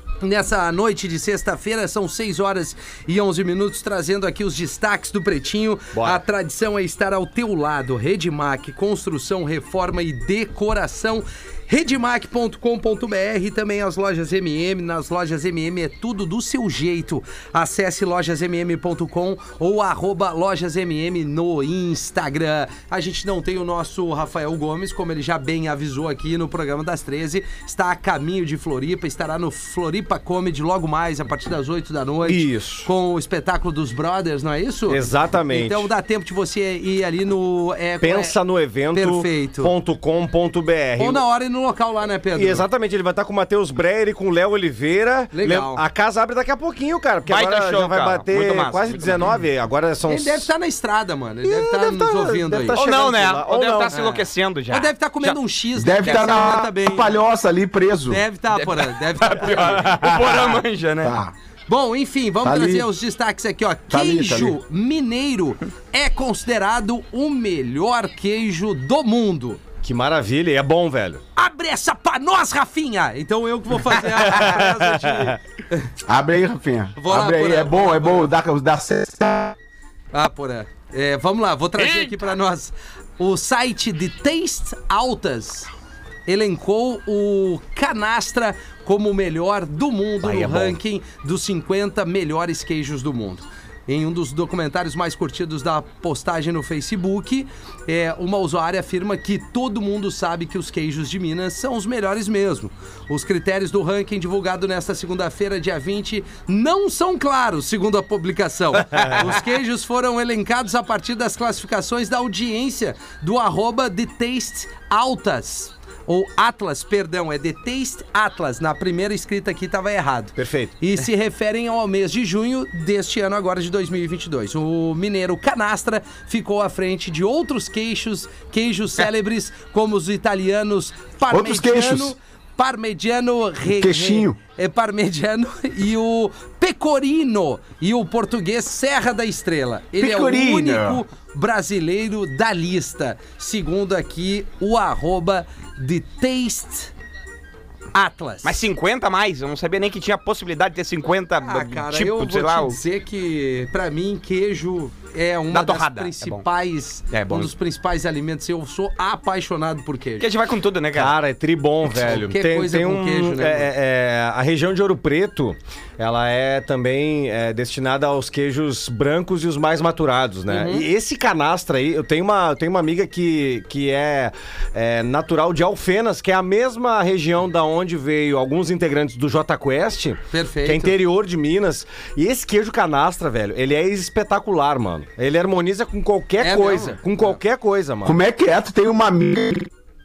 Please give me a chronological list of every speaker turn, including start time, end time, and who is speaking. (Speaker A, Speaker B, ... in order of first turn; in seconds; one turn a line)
Speaker A: 0.2-38.4
Speaker B: 5.9-6.2
Speaker B: 32.2-32.9
Speaker B: 34.9-35.9
Speaker B: 38.0-41.2
Speaker A: 38.9-39.7
Speaker A: 41.0-42.6
Speaker B: 42.4-50.5
Speaker A: 45.3-45.8
Speaker C: 47.3-49.4
Speaker A: 50.1-52.8
Speaker B: 51.4-54.0
Speaker C: 52.7-55.4
Speaker A: 53.9-57.1
Speaker D: 55.8-58.2
Speaker C: 56.0-56.5
Speaker A: 58.1-59.9
Speaker C: 58.5-61.2
Speaker D: 60.0-61.3
Speaker A: 61.7-69.6
Speaker D: 62.4-62.9
Speaker D: 63.9-64.6
Speaker B: 69.8-71.2
Speaker A: 71.3-75.9
Speaker B: 74.1-75.4
Speaker D: 76.1-79.6
Speaker A: 77.0-78.3
Speaker A: 80.1-85.7
Speaker C: 81.8-82.2
Speaker A: 86.3-146.9
Speaker B: 90.2-90.8
Speaker B: 108.9-109.3
Speaker B: 120.4-120.7
Speaker D: 131.3-132.1
Speaker D: 133.7-134.4
Speaker D: 140.0-141.0
Speaker A: 147.9-148.6
Speaker C: 148.4-152.8
Speaker A: 151.4-160.3
Speaker C: 155.5-156.4
Speaker C: 157.1-157.5
Speaker C: 160.2-161.2
Speaker B: 160.9-188.2
Speaker A: 162.2-163.7
Speaker A: 170.5-170.9
Speaker A: 180.3-181.0
Speaker A: 186.4-187.4
Speaker D: 188.0-189.7